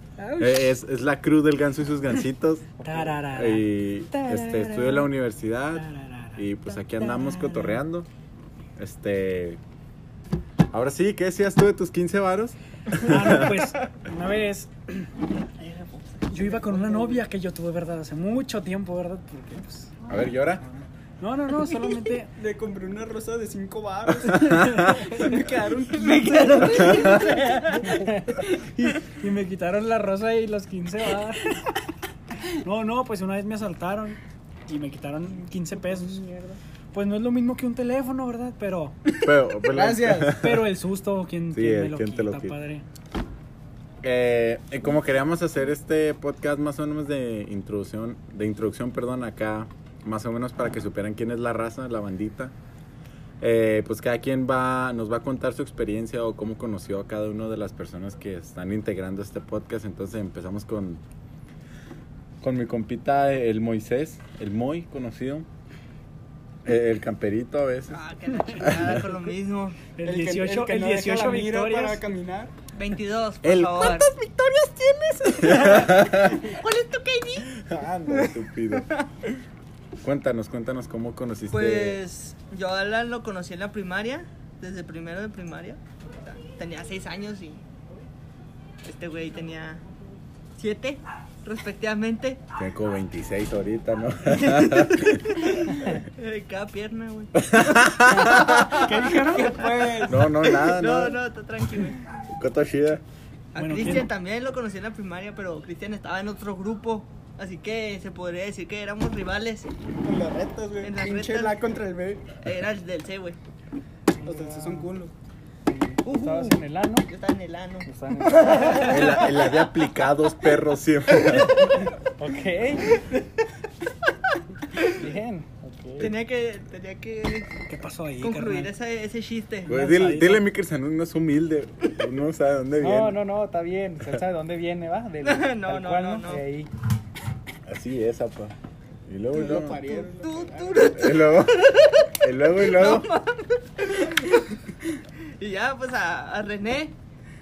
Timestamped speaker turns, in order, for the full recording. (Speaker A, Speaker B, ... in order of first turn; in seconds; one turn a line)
Speaker A: 0.2-0.8
Speaker B: 0.4-2.8
Speaker A: 2.8-3.7
Speaker C: 2.8-3.2
Speaker B: 3.3-8.1
Speaker D: 4.1-5.1
Speaker A: 5.7-7.8
Speaker B: 8.8-9.6
Speaker B: 10.7-13.5
Speaker A: 13.0-15.0
Speaker D: 15.6-16.8
Speaker A: 16.3-20.0
Speaker C: 16.7-17.2
Speaker B: 20.1-20.6
Speaker A: 21.2-22.3
Speaker E: 22.4-27.2
Speaker B: 24.2-25.1
Speaker A: 24.3-25.3
Speaker D: 25.1-28.0
Speaker B: 26.8-27.2
Speaker A: 27.8-31.5
Speaker A: 32.4-36.2
Speaker D: 35.7-36.6
Speaker A: 36.9-39.0
Speaker B: 39.2-40.7
Speaker E: 39.7-40.4
Speaker A: 40.4-42.8
Speaker B: 41.5-42.6
Speaker B: 44.0-52.5
Speaker B: 53.4-61.0
Speaker B: 62.4-65.5
Speaker B: 66.7-68.0
Speaker D: 67.9-69.8
Speaker B: 68.6-68.9
Speaker A: 70.0-72.0
Speaker E: 70.0-72.5
Speaker D: 72.7-74.1
Speaker B: 73.4-74.4
Speaker E: 74.2-75.4
Speaker B: 75.2-76.4
Speaker D: 75.4-77.5
Speaker B: 77.5-78.8
Speaker D: 78.1-79.0
Speaker B: 80.0-82.0
Speaker D: 81.5-87.6
Speaker D: 88.8-89.8
Speaker D: 90.5-92.4
Speaker B: 92.6-95.4
Speaker D: 94.4-97.4
Speaker B: 97.4-98.6
Speaker E: 98.1-100.2
Speaker D: 98.1-102.0
Speaker A: 98.8-99.6
Speaker B: 100.0-101.2
Speaker B: 102.3-103.0
Speaker D: 103.5-109.7
Speaker A: 103.5-104.1
Speaker E: 110.0-112.3
Speaker D: 110.8-111.6
Speaker D: 112.4-113.4
Speaker C: 114.2-114.9
Speaker E: 114.2-115.1
Speaker C: 115.7-117.1
Speaker D: 116.0-119.7
Speaker C: 117.8-119.2
Speaker B: 118.8-121.7
Speaker D: 121.2-121.5
Speaker C: 122.2-123.0
Speaker D: 122.9-123.2
Speaker C: 124.9-126.1
Speaker D: 126.0-127.5
Speaker A: 127.7-128.7
Speaker D: 128.2-129.7
Speaker A: 129.7-130.4
Speaker B: 129.7-133.2
Speaker C: 132.8-136.7
Speaker D: 135.2-136.4
Speaker B: 137.7-138.5
Speaker B: 139.1-139.8
Speaker E: 139.3-141.0
Speaker D: 139.9-144.5
Speaker B: 140.9-143.1
Speaker D: 145.4-147.0